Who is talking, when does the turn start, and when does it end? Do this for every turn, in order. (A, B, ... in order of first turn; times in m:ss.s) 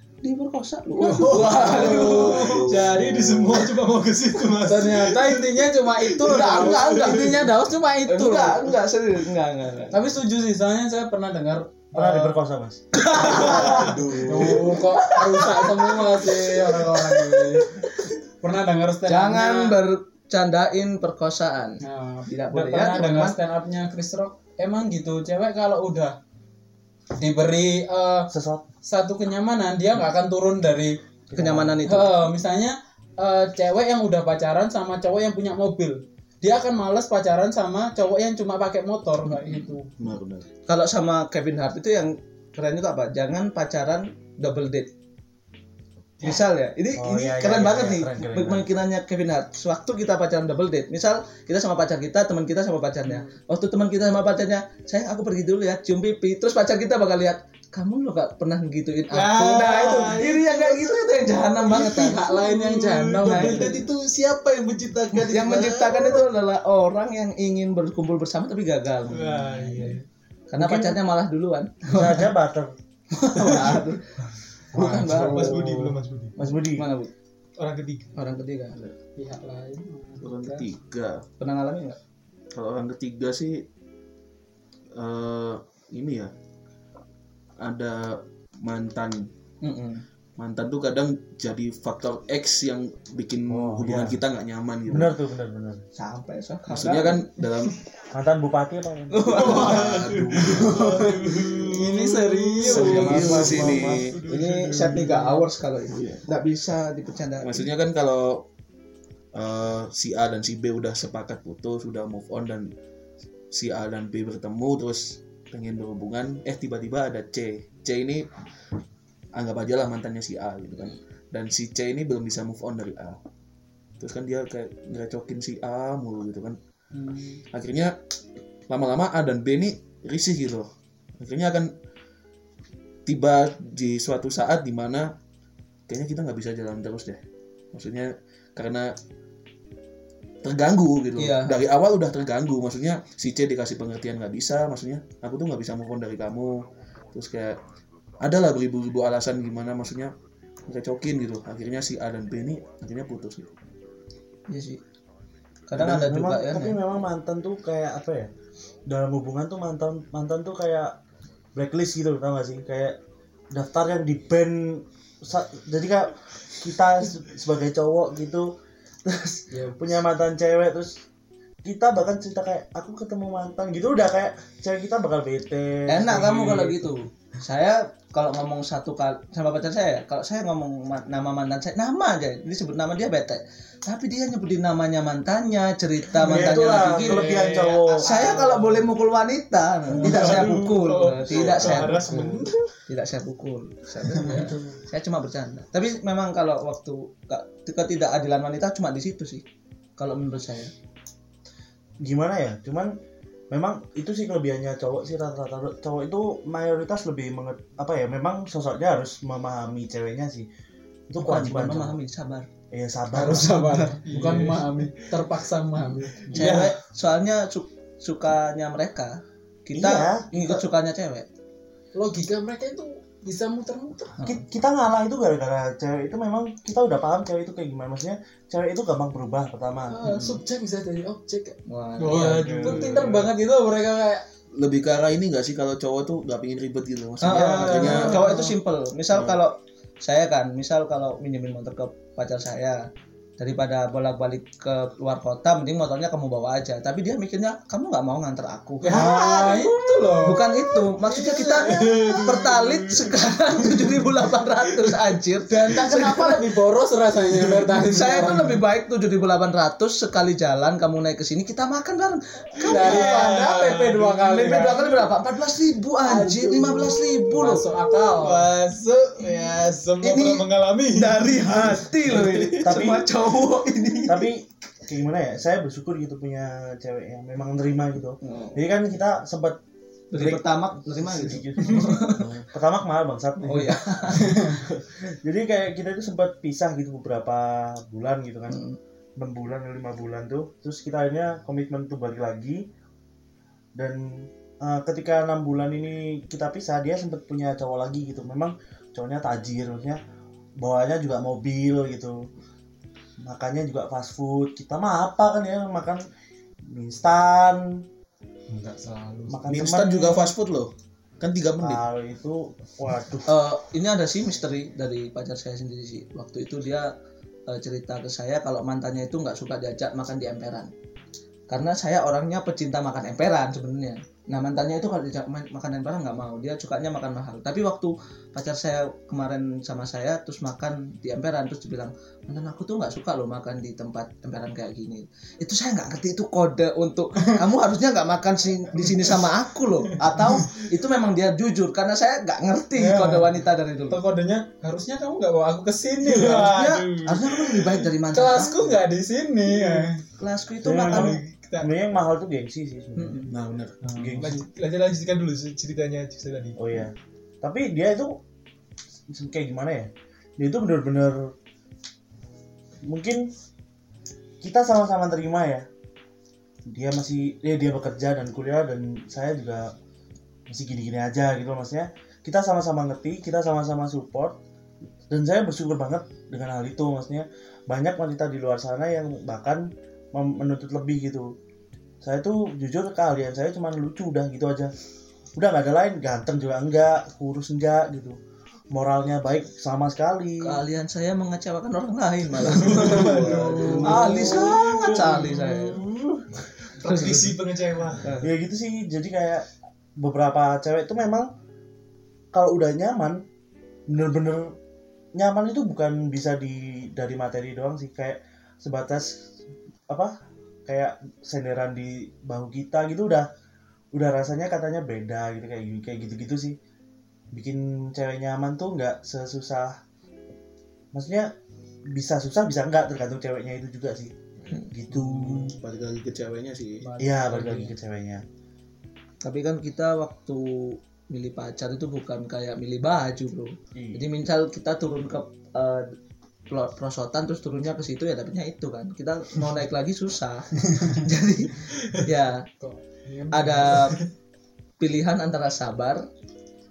0:00.2-0:02.6 A
0:01.0-0:02.6 B
0:01.2-0:07.4 C
0:01.8-0:03.6 D
0:04.6-0:08.7 B
0:06.2-0:07.5 A
0:08.1-0:10.1 A
0:09.9-0:12.4 B
0:12.0-0:12.8 E
0:12.9-0:18.1 A
0:13.2-0:14.8 D
0:13.2-0:14.0 C
0:13.3-0:17.8 B
0:18.4-0:19.7 B
0:19.1-0:23.4 A
0:21.8-0:26.2 B
0:27.2-0:28.3 B
0:28.3-0:28.6 E
0:28.8-0:31.0 B
0:31.3-0:31.8 E
0:31.4-0:32.2 A
0:31.9-0:39.9 B
0:39.2-0:39.8 A
0:40.0-0:40.5 D
0:40.7-0:44.9 A
0:46.2-1:02.2 A
0:47.0-0:48.7 E
0:59.1-1:06.2 C
1:01.7-1:03.8 B
1:03.2-1:03.8 A
1:05.3-1:09.9 A
1:09.1-1:10.0 C
1:10.5-1:12.3 A
1:10.6-1:11.0 E
1:11.9-1:12.7 E
1:13.1-1:14.0 A
1:13.4-1:13.8 C
1:14.7-1:15.5 B
1:14.7-1:15.7 A
1:14.8-1:16.9 E
1:15.3-1:16.4 C
1:16.8-1:17.1 A
1:17.6-1:18.2 C
1:18.2-1:18.8 A
1:19.2-1:20.6 B
1:20.2-1:21.2 D
1:21.4-1:22.0 A
1:22.5-1:23.6 D
1:25.0-1:26.3 D
1:27.6-1:29.3 D
1:29.6-1:30.0 A
1:30.4-1:35.2 D
1:33.5-1:34.2 E
1:34.9-1:35.8 E
1:36.0-1:37.3 A
1:36.7-1:37.8 D
1:38.1-1:39.4 E
1:39.1-1:39.9 A
1:39.2-1:45.4 C
1:39.3-1:40.8 D
1:40.5-1:43.6 B
1:42.7-1:44.2 D
1:42.7-1:47.7 A
1:45.9-1:46.2 D
1:47.4-1:48.4 D
1:49.4-1:52.7 D
1:53.5-1:58.3 D
1:59.4-2:03.2 D
2:04.0-2:06.6 D
2:06.9-2:07.4 B
2:07.5-2:08.0 D
2:08.7-2:11.7 D
2:13.1-2:15.1 D
2:15.9-2:17.2 D
2:17.7-2:18.9 D
2:20.4-2:27.6 D
2:21.2-2:21.6 A
2:28.2-2:30.1 D
2:30.7-2:33.5 D
2:34.5-2:34.8 A
2:35.7-2:36.8 A
2:35.8-2:38.3 E
2:38.9-2:41.0 E
2:41.6-2:43.0 E
2:43.5-2:48.5 E
2:49.0-2:51.0 E
2:49.5-2:49.9 B
2:51.6-2:56.9 E
2:55.9-3:12.3 A
3:06.2-3:08.2 E
3:06.6-3:08.8 C
3:07.0-3:08.6 B
3:10.0-3:12.7 C
3:11.3-3:11.9 D
3:12.0-3:12.4 E
3:12.9-3:19.4 A
3:14.2-3:14.8 C
3:20.0-3:20.7 A
3:22.0-3:23.0 E
3:23.5-3:30.5 E
3:31.1-3:32.0 E
3:31.2-3:32.5 A
3:32.7-3:33.7 E
3:33.1-3:36.7 B
3:34.0-3:35.2 C
3:36.2-3:36.8 C
3:36.3-3:41.3 A
3:39.7-3:40.6 E
3:42.0-3:44.2 B
3:44.2-3:50.1 E
3:49.9-3:51.6 B
3:50.1-3:50.4 A
3:51.7-3:53.1 A
3:52.0-3:53.2 C
3:52.2-3:54.2 B
3:52.2-3:53.2 E
3:54.6-3:58.3 D
3:57.2-4:02.8 A
3:57.4-3:58.4 C
3:57.8-3:58.5 B
4:03.4-4:09.1 A
4:08.8-4:12.3 B
4:08.9-4:09.5 E
4:10.2-4:16.5 A
4:11.2-4:13.1 C
4:13.7-4:14.1 C
4:15.5-4:18.6 B
4:17.8-4:27.7 A
4:22.6-4:25.1 C
4:22.6-4:24.9 B
4:26.0-4:28.5 B
4:27.2-4:32.6 C
4:30.0-4:34.3 A
4:32.6-4:33.1 E
4:33.6-4:34.0 C
4:34.1-4:39.6 E
4:38.2-4:38.6 A
4:40.1-4:42.3 A
4:40.2-4:48.6 E
4:43.4-4:44.5 A
4:44.2-4:44.5 B
4:48.5-4:48.8 A
4:49.2-4:52.7 E
4:53.8-5:00.0 E
5:00.6-5:02.2 E
5:03.2-5:06.0 E
5:06.7-5:07.7 E
5:08.5-5:09.4 B
5:09.3-5:10.3 E
5:09.5-5:11.8 D
5:11.6-5:13.3 E
5:13.3-5:16.9 A
5:17.5-5:20.7 A
5:21.5-5:44.0 A
5:42.8-5:43.3 B
5:43.9-5:46.6 B
5:46.1-5:48.8 A
5:46.2-5:47.9 C
5:48.1-5:50.0 B
5:49.5-5:49.9 C
5:50.2-5:51.2 A
5:50.6-5:53.3 E
5:50.7-5:51.2 B
5:51.0-5:51.7 C
5:53.0-5:53.3 A
5:53.3-5:53.8 D
5:53.8-5:54.4 B
5:53.9-5:54.4 E
5:54.2-5:56.6 C
5:56.6-5:58.2 E
5:59.1-6:01.3 E
6:02.8-6:03.3 E
6:04.4-6:05.7 E
6:06.7-6:09.7 E
6:10.5-6:14.4 E
6:15.1-6:21.3 E
6:22.0-6:24.7 E
6:25.4-6:28.2 E
6:28.7-6:30.6 E
6:30.4-6:35.8 A
6:32.6-6:34.5 D
6:32.6-6:38.1 C
6:33.6-6:34.5 B
6:36.8-6:37.4 A
6:38.0-6:38.3 A
6:38.2-6:41.3 E
6:42.3-6:43.2 E
6:43.9-6:44.6 E
6:45.2-6:49.2 E
6:49.9-6:50.2 E
6:50.7-6:53.3 E
6:53.9-6:56.6 E
6:57.3-6:59.8 E
7:00.9-7:01.3 E
7:01.9-7:05.6 E
7:04.5-7:06.9 D
7:05.0-7:05.5 B
7:06.8-7:07.8 B
7:07.0-7:08.2 E
7:09.2-7:15.9 A
7:13.8-7:14.0 E
7:16.5-7:22.4 A
7:22.6-7:23.8 B
7:23.3-7:24.0 A
7:23.6-7:24.1 C
7:24.8-7:26.0 A